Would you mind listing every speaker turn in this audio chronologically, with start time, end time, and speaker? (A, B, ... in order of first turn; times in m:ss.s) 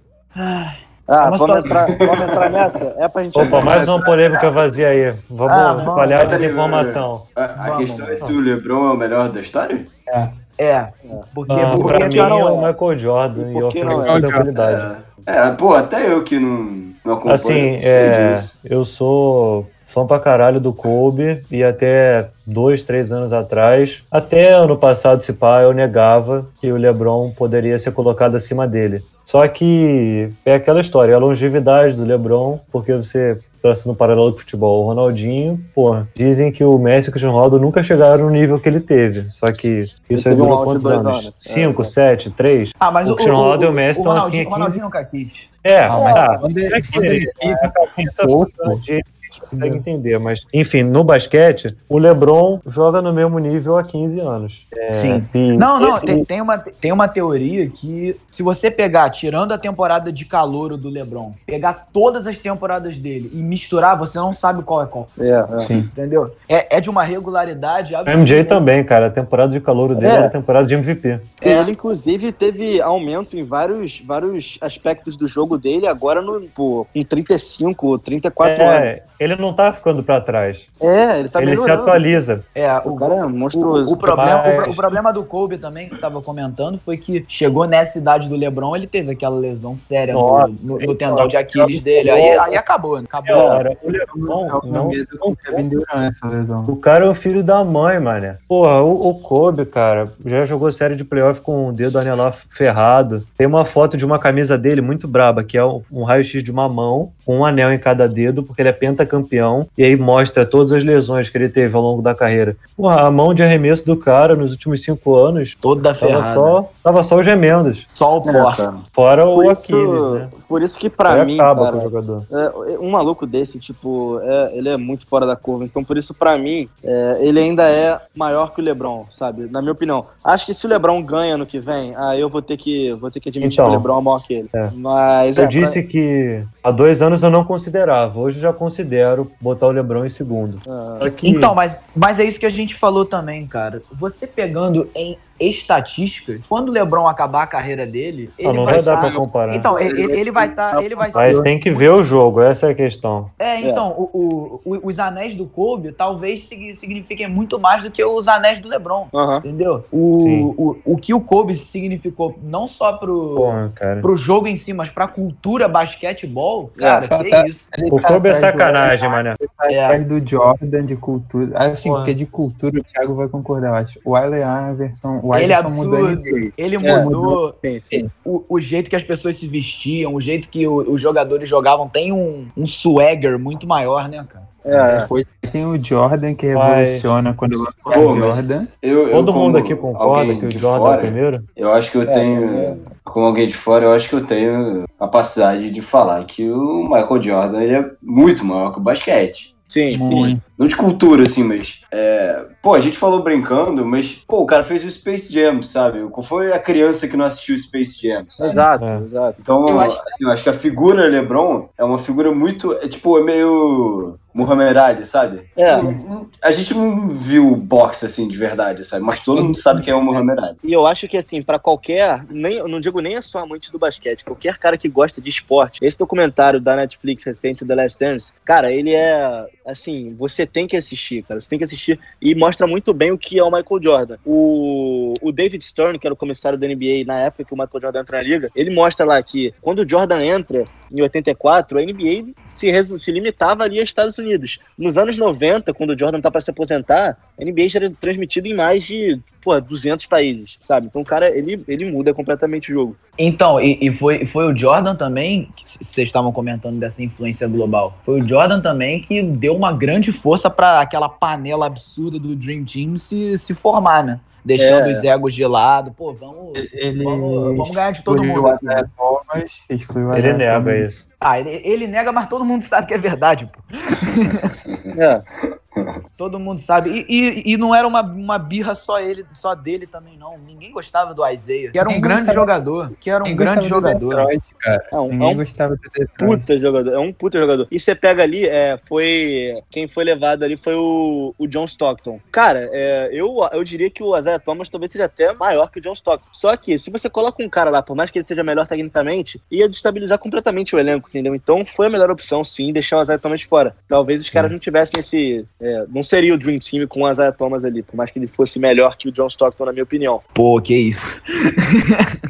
0:00.3-0:01.8 A
0:01.1-0:03.9 B
0:01.9-0:02.5 C
0:03.3-0:07.2 D
0:03.4-0:03.9 C
0:05.4-0:06.4 A
0:06.1-0:09.9 C
0:07.6-0:08.2 A
0:10.1-0:10.3 E
0:10.6-0:12.4 A
0:11.5-0:14.9 D
0:11.8-0:12.7 B
0:13.4-0:14.2 B
0:13.9-0:14.5 E
0:14.5-0:18.5 C
0:17.2-0:44.8 D
0:40.1-0:41.9 B
0:42.8-0:46.4 A
0:45.6-0:56.3 D
0:45.8-0:48.8 E
0:49.5-0:49.8 E
0:54.9-1:05.1 A
1:05.2-1:05.7 B
1:05.6-1:05.9 E
1:05.9-1:08.6 A
1:08.0-1:11.3 D
1:10.0-1:10.3 B
1:11.4-1:11.7 A
1:11.4-1:18.9 B
1:18.4-1:20.7 D
1:20.8-1:22.0 B
1:21.4-1:22.4 D
1:22.5-1:33.6 A
1:22.8-1:24.0 B
1:24.0-1:25.0 D
1:30.1-1:32.4 D
1:32.0-1:32.5 E
1:33.2-1:35.6 D
1:33.3-1:33.6 B
1:34.1-1:36.7 E
1:36.7-1:57.9 D
1:55.6-1:56.6 A
1:57.9-1:58.6 A
1:58.3-1:58.7 B
1:58.9-2:00.3 D
1:59.3-2:15.8 B
2:01.1-2:02.3 D
2:13.4-2:13.9 D
2:15.3-2:21.6 D
2:20.6-2:21.0 B
2:21.2-2:31.8 A
2:28.4-2:29.7 D
2:28.6-2:30.1 E
2:30.7-2:31.1 B
2:31.1-2:31.5 E
2:31.1-2:33.3 D
2:33.4-2:47.7 A
2:39.1-2:39.4 B
2:40.2-2:40.5 D
2:43.4-2:44.1 D
2:46.8-2:47.0 B
2:47.1-2:58.1 E
2:47.9-2:49.4 D
2:49.7-2:50.0 A
2:51.8-2:52.2 D
2:55.3-2:57.6 A
2:56.8-2:57.1 B
2:57.6-2:58.0 B
2:58.2-3:04.5 A
3:04.6-3:05.1 B
3:04.7-3:08.7 E
3:06.5-3:07.2 D
3:07.9-3:19.5 C
3:09.1-3:11.5 D
3:12.0-3:12.8 B
3:19.7-3:20.4 B
3:19.9-3:20.4 E
3:20.6-3:28.6 C
3:28.4-3:29.4 B
3:28.8-3:29.0 D
3:29.4-3:40.6 C
3:29.6-3:30.1 E
3:35.6-3:35.8 B
3:39.3-3:39.8 E
3:40.6-4:13.0 B
4:13.2-4:28.9 A
4:24.6-4:25.0 B
4:26.6-4:30.8 E
4:30.1-4:31.0 D
4:31.2-4:34.5 A
4:34.7-4:34.9 C
4:34.9-4:35.2 B
4:36.2-4:44.3 A
4:41.8-4:42.5 E
4:43.2-4:46.5 E
4:44.9-4:45.4 B
4:46.2-5:10.2 B
5:10.3-5:11.2 A
5:11.7-5:12.1 A